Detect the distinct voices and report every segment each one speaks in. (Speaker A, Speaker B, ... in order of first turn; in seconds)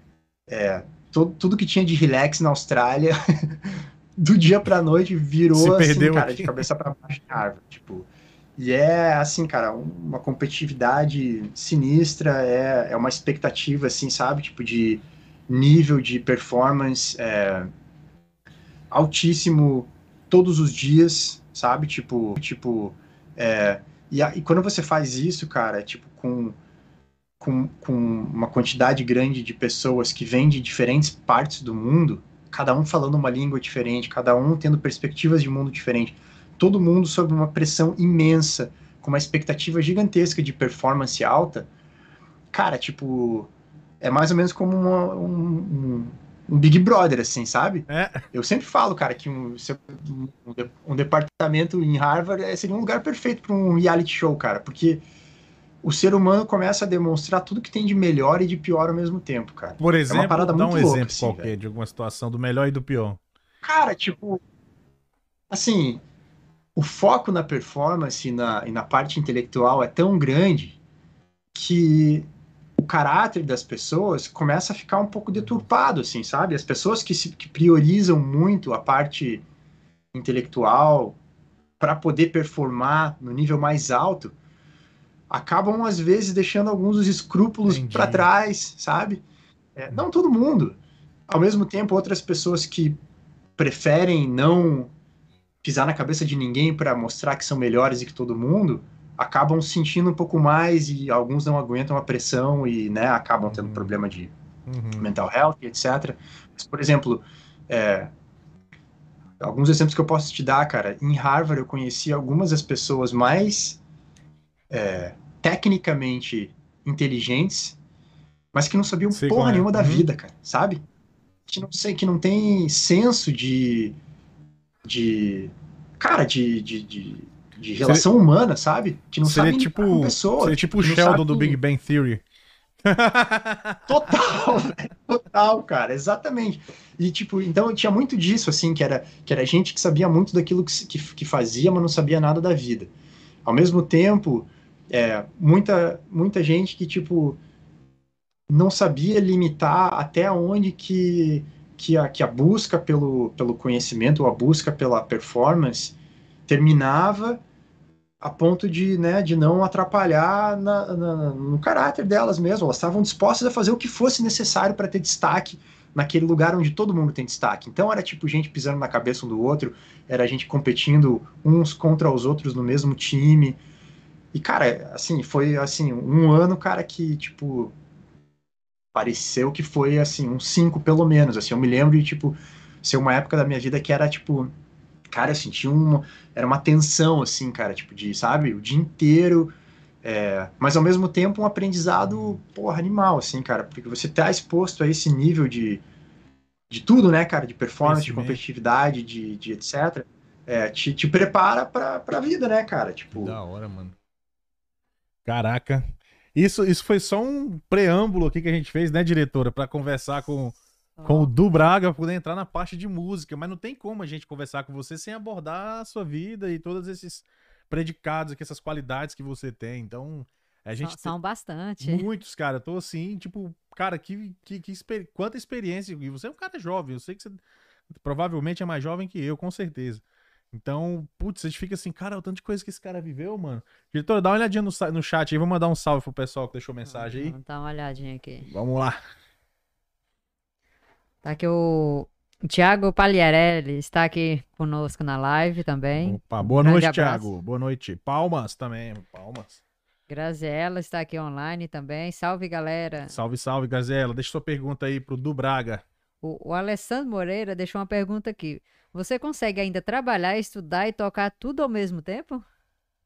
Speaker A: 0.5-17.7, 18.9-26.6, 27.4-41.7, 42.5-55.0, 55.8-61.5, 63.6-64.4, 65.5-66.0, 66.8-70.8, 71.5-79.4, 80.1-81.2, 81.8-84.3, 85.3-89.2, 89.8-93.0, 93.6-94.9, 95.6-104.3, 105.0-108.1, 109.4-113.8, 114.7-117.8, 118.5-120.8, 121.5-124.0, 124.8-131.6, 133.9-142.9, 143.4-147.4, 148.5-155.9, 156.5-157.4, 158.2-173.6, 174.3-177.7, 178.9-184.5, 185.1-195.8, 196.7-203.4
Speaker B: 5.5-6.6, 47.9-48.2, 59.8-63.2, 87.7-88.3, 103.5-103.9, 104.7-105.1, 119.1-120.1, 129.2-132.2, 132.8-134.4, 192.0-192.4, 197.8-198.4, 203.1-204.0, 205.3-221.1, 221.8-237.4, 238.5-239.0, 246.0-249.6, 253.1-255.8
Speaker C: 211.0-211.3, 220.8-222.1, 236.9-238.5, 241.2-247.3, 250.1-253.1, 256.2-262.4